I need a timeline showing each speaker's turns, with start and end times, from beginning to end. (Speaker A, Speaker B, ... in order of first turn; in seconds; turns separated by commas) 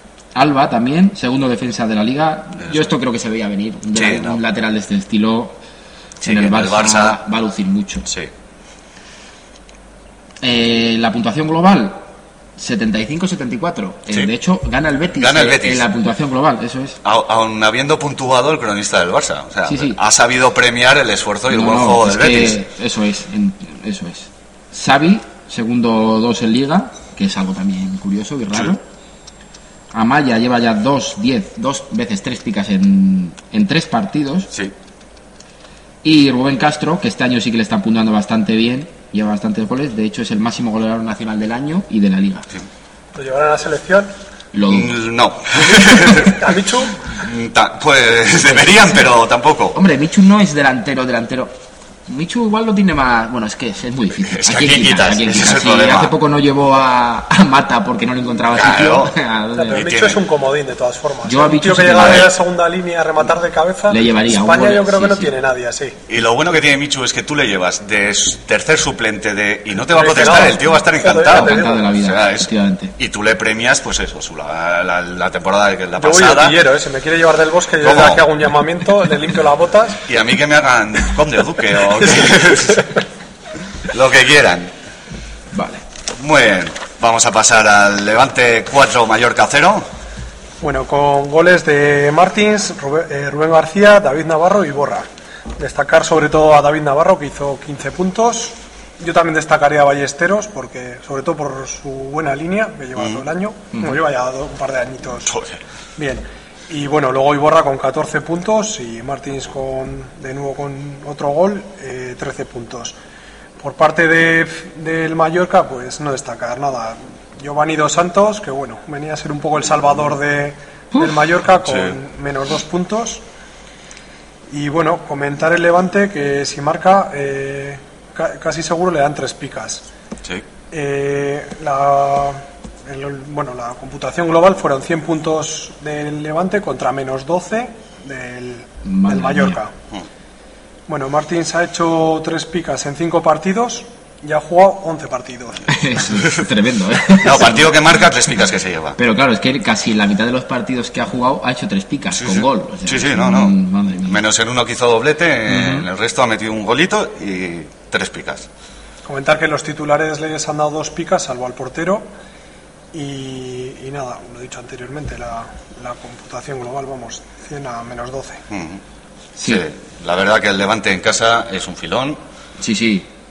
Speaker A: 0.3-5.6, Speaker B: 2.6-2.9, Speaker B: 3.9-4.4, Speaker B: 6.2-7.2, Speaker A: 6.2-8.1, Speaker B: 8.1-8.3, Speaker A: 10.4-12.0, Speaker A: 12.6-17.0, Speaker B: 15.2-15.9, Speaker B: 17.0-22.6, Speaker A: 19.6-20.0, Speaker A: 21.5-28.8, Speaker A: 29.9-34.5, Speaker A: 36.0-42.5, Speaker C: 43.1-44.1, Speaker A: 44.5-45.0, Speaker B: 44.7-49.8, Speaker C: 45.6-47.0, Speaker A: 49.7-51.5, Speaker A: 52.1-59.8, Speaker B: 54.1-56.1, Speaker B: 58.5-59.1, Speaker C: 59.6-66.0, Speaker B: 59.7-60.2, Speaker A: 61.2-62.3, Speaker A: 63.9-65.3, Speaker B: 66.1-76.6, Speaker C: 69.9-71.8, Speaker A: 71.3-72.9, Speaker C: 76.0-80.0, Speaker B: 77.8-78.2, Speaker B: 80.0-82.9, Speaker B: 83.9-84.7, Speaker A: 85.5-85.8, Speaker B: 86.1-89.8, Speaker C: 90.6-95.1, Speaker C: 95.6-105.3, Speaker B: 103.0-103.2, Speaker A: 103.7-104.0, Speaker B: 105.3-105.6, Speaker C: 106.0-113.0, Speaker C: 113.6-123.2, Speaker B: 121.6-121.9, Speaker C: 124.5-129.8, Speaker C: 130.7-139.7, Speaker A: 138.8-139.6, Speaker C: 140.9-145.7, Speaker A: 145.7-147.8, Speaker B: 147.1-149.0, Speaker A: 149.0-154.2, Speaker B: 152.1-158.5, Speaker A: 155.5-155.8, Speaker C: 159.0-162.1, Speaker C: 162.9-168.4, Speaker B: 168.5-168.8, Speaker A: 169.4-169.6, Speaker B: 169.4-172.2, Speaker A: 172.6-173.1